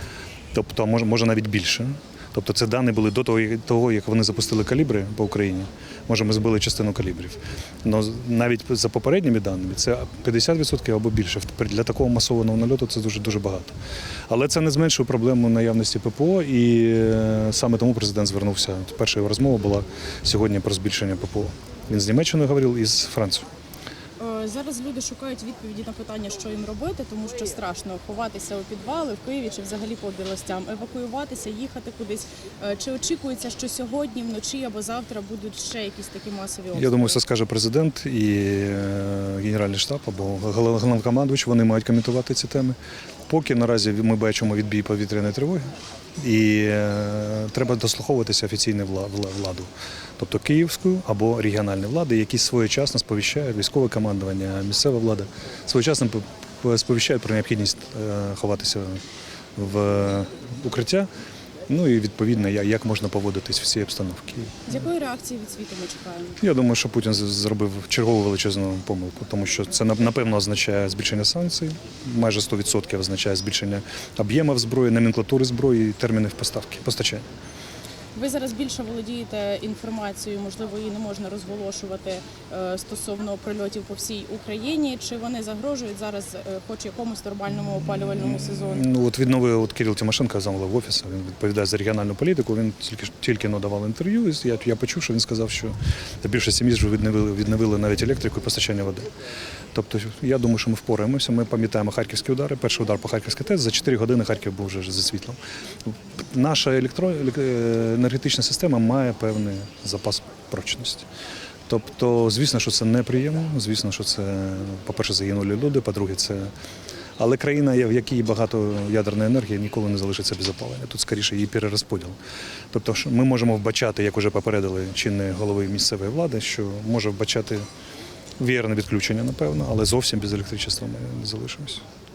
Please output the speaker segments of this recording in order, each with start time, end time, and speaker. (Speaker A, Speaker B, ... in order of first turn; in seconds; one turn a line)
Speaker A: 0.5-13.7
Speaker A: 14.3-23.4
Speaker B: 24.2-37.2
Speaker A: 36.7-45.6
Speaker A: 46.2-59.0
Speaker A: 59.5-61.1
Speaker A: 61.7-64.6
Speaker B: 64.7-66.4
Speaker A: 66.4-77.2
Speaker B: 78.1-88.8
Speaker A: 88.5-99.1
Speaker A: 99.7-105.4
Speaker A: 106.2-111.1
Speaker A: 111.7-116.5
Speaker A: 117.2-122.2
Speaker A: 122.7-127.7
Speaker A: 128.4-131.8